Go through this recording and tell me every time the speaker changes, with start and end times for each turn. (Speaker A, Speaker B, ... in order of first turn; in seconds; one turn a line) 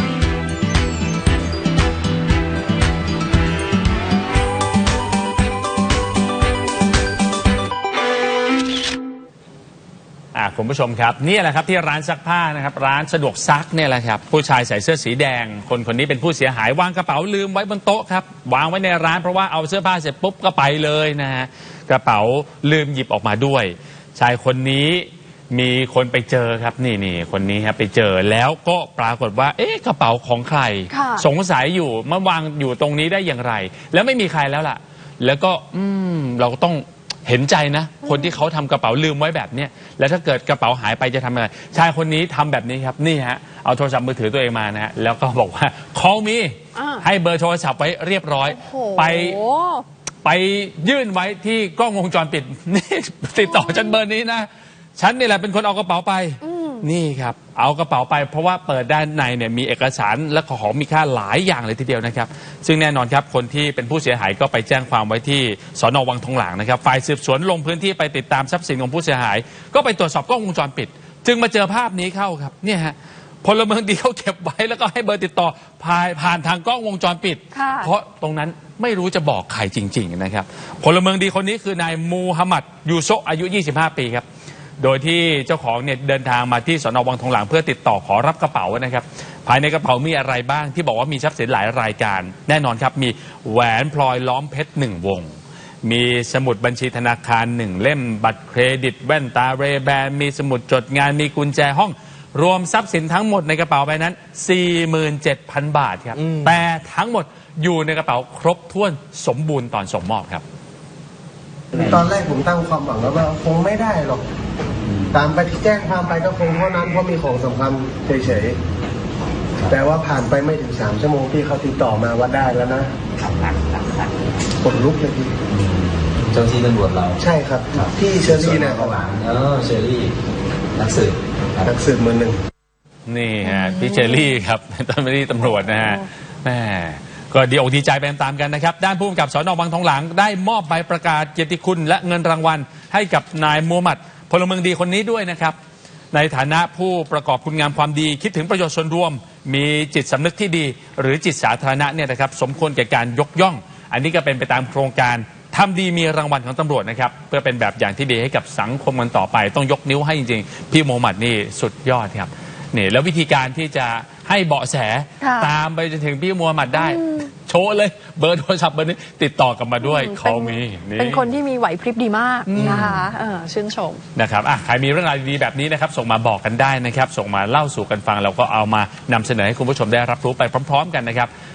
Speaker A: 10.3-49.4
Speaker B: 30.9-31.3
Speaker B: 46.8-47.0
Speaker B: 48.5-49.9
Speaker A: 50.2-84.2
Speaker B: 53.5-53.9
Speaker B: 56.4-56.8
Speaker B: 77.5-77.9
Speaker A: 84.8-110.4
Speaker C: 111.7-114.2
Speaker D: 111.7-112.0
Speaker D: 114.8-115.3
Speaker C: 115.1-118.6
Speaker C: 119.7-122.9
Speaker A: 123.2-124.1
Speaker C: 124.6-125.3
Speaker D: 125.5-127.2
Speaker C: 127.2-129.0
Speaker D: 127.7-130.1
Speaker D: 130.7-131.7
Speaker C: 131.6-132.4
Speaker A: 133.1-145.6
Speaker B: 133.4-134.3
Speaker B: 135.6-136.0
Speaker A: 146.1-171.3
Speaker B: 165.2-165.5
Speaker B: 166.8-167.3
Speaker B: 169.8-174.0
Speaker A: 172.4-173.1
Speaker A: 174.1-181.3